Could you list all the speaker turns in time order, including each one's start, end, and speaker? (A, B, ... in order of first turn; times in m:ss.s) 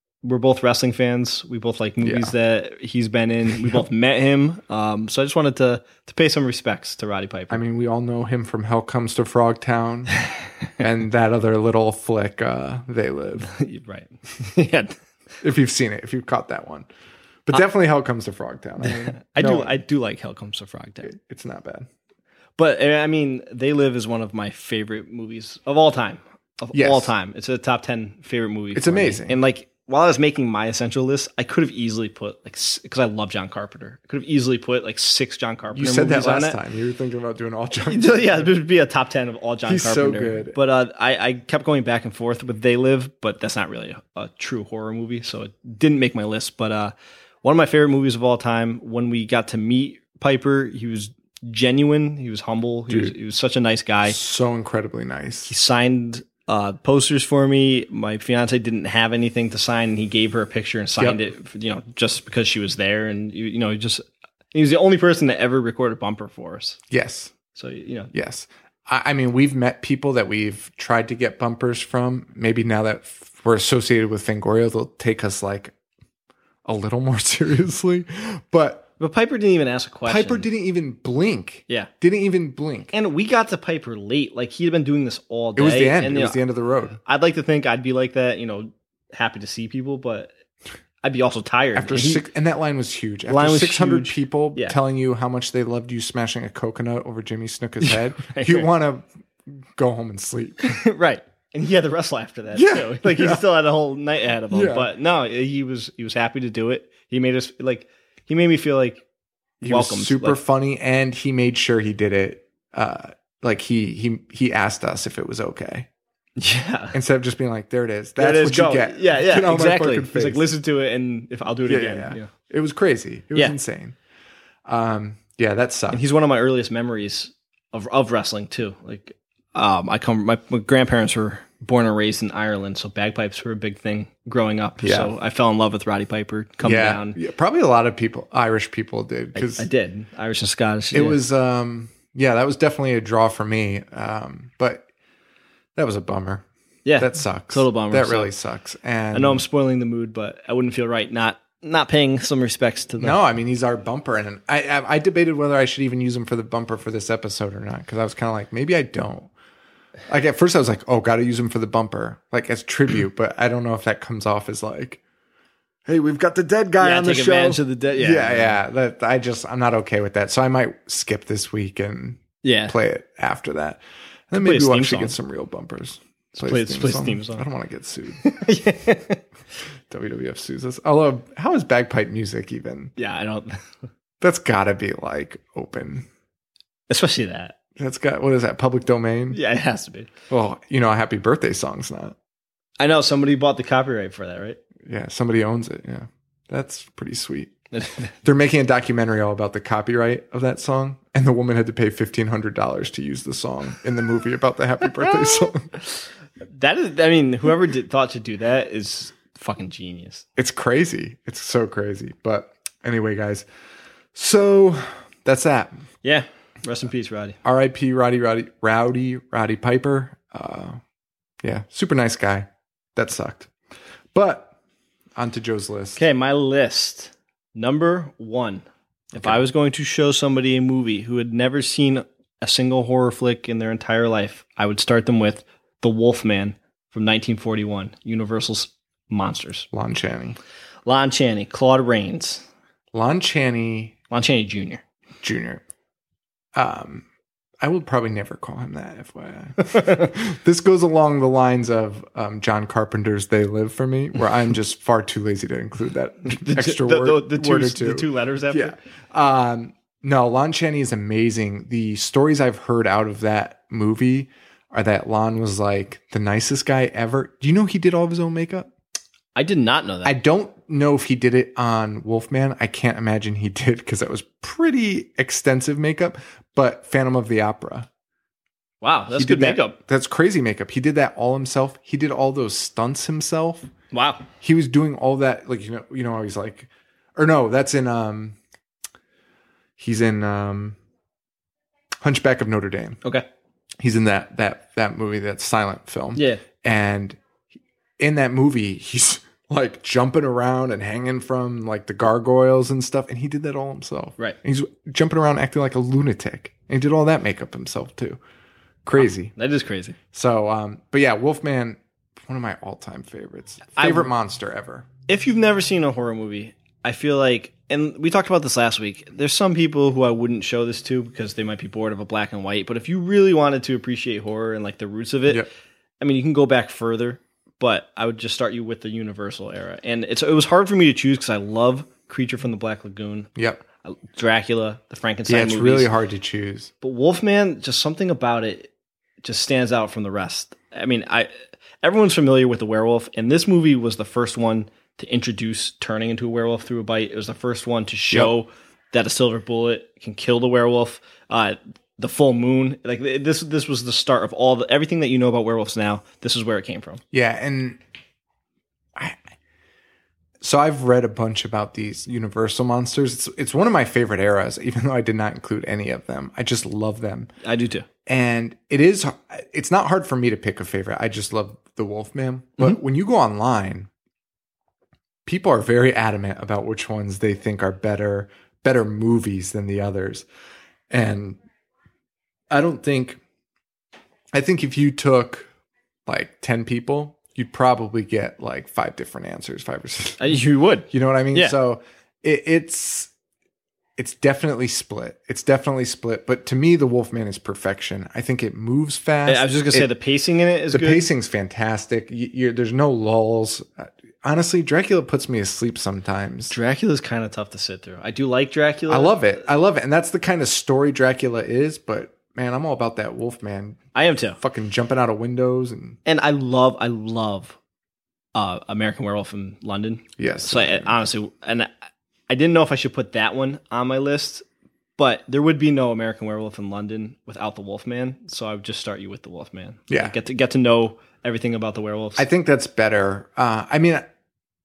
0:00.2-0:07.6 A
0:02.0-0:02.3 B
0:07.5-0:10.2 B
0:10.8-0:13.5 B
0:13.4-0:14.9 A
0:15.4-0:16.9 B
0:17.5-0:19.8 B
0:18.8-0:21.1 A
0:21.0-0:21.9 B
0:22.6-0:36.6 A
0:26.7-0:27.1 B
0:28.7-0:29.4 B
0:35.7-0:38.5 B
0:37.9-0:46.9 A
0:39.6-0:40.6 B
0:47.4-0:54.2 A
0:52.9-0:53.1 B
0:54.0-0:55.5 B
0:55.5-1:04.0 A
1:04.5-1:06.8 A
1:06.9-1:07.3 B
1:07.5-1:08.1 A
1:08.1-1:15.7 B
1:16.6-1:18.9 B
1:19.0-1:20.5 A
1:20.0-1:22.9 B
1:22.9-1:26.4 A
1:25.6-1:27.0 B
1:27.0-1:30.3 A
1:31.0-1:32.2 A
1:31.8-1:39.1 B
1:33.3-1:34.7 A
1:37.8-1:38.7 A
1:39.7-1:40.8 B
1:40.6-1:49.0 A
1:42.5-1:43.5 B
1:44.5-1:44.9 B
1:49.6-1:55.9 B
1:49.6-1:50.4 A
1:56.4-1:57.0 A
1:56.9-2:00.5 B
1:58.2-2:02.3 A
2:01.7-2:04.0 B
2:04.6-2:06.0 B
2:05.9-2:17.2 A
2:14.8-2:15.1 B
2:16.6-2:19.7 B
2:19.3-2:21.2 A
2:20.9-2:24.8 B
2:25.8-2:26.4 B
2:26.8-2:28.3 A
2:27.0-2:29.4 B
2:29.1-2:33.2 A
2:33.0-2:39.3 B
2:40.1-2:45.0 B
2:45.8-2:58.3 B
2:46.8-2:48.6 A
2:52.4-2:52.8 A
2:54.3-2:55.1 A
2:56.4-2:57.4 A
2:58.2-2:59.2 A
2:59.9-3:02.9 B
3:03.0-3:03.6 A
3:04.2-3:06.1 B
3:06.9-3:07.6 A
3:07.8-3:09.4 B
3:09.3-3:10.1 A
3:10.3-3:12.1 B
3:12.8-3:14.6 A
3:14.8-3:17.5 B
3:17.7-3:18.1 A
3:18.2-3:25.7 B
3:26.5-3:30.2 A
3:30.4-3:33.4 B
3:34.1-3:35.8 B
3:36.0-3:37.4 A
3:37.4-3:40.8 B
3:41.4-3:43.5 B
3:44.1-3:44.5 B
3:45.2-3:46.0 B
3:46.0-3:48.6 A
3:49.1-3:49.4 B
3:49.1-3:59.6 A
3:59.7-4:00.4 B
4:00.8-4:02.4 A
4:02.9-4:03.9 B
4:04.1-4:04.8 A
4:05.2-4:05.6 B
4:06.5-4:07.0 B
4:07.6-4:28.7 B
4:16.3-4:18.7 A
4:29.3-4:30.2 A
4:30.0-4:37.9 B
4:38.8-4:39.8 A
4:39.1-4:43.7 B
4:43.9-4:44.3 A
4:44.4-4:48.4 B
4:49.8-4:50.8 B
4:52.0-4:53.0 B
4:53.8-4:57.2 B
4:56.2-4:56.4 A
4:58.0-5:08.2 B
5:08.8-5:09.3 B
5:09.0-5:10.0 A
5:10.1-5:14.8 B
5:13.7-5:14.1 A
5:15.1-5:25.5 A
5:26.0-5:33.3 A
5:33.4-5:33.6 B
5:33.8-5:35.9 A
5:35.2-5:36.7 B
5:36.8-5:38.7 A
5:39.2-5:41.3 A
5:41.8-5:57.0 A
5:57.1-5:57.8 B
6:00.4-6:07.3 B
6:07.4-6:07.9 A
6:08.0-6:13.9 B
6:15.2-6:20.2 B
6:20.9-6:21.4 B
6:22.5-6:23.2 B
6:24.3-6:25.5 B
6:26.1-6:30.4 B
6:30.2-6:31.6 A
6:30.9-6:33.1 B
6:34.0-6:39.9 B
6:39.2-6:41.1 A
6:40.7-6:46.5 B
6:46.5-6:49.2 A
6:48.9-6:56.0 B
6:53.9-6:54.4 A
6:56.0-6:57.6 A
6:58.3-7:01.7 A
7:00.2-7:00.9 B
7:02.3-7:04.4 A
7:05.0-7:12.2 A
7:09.9-7:10.2 B
7:12.2-7:14.1 B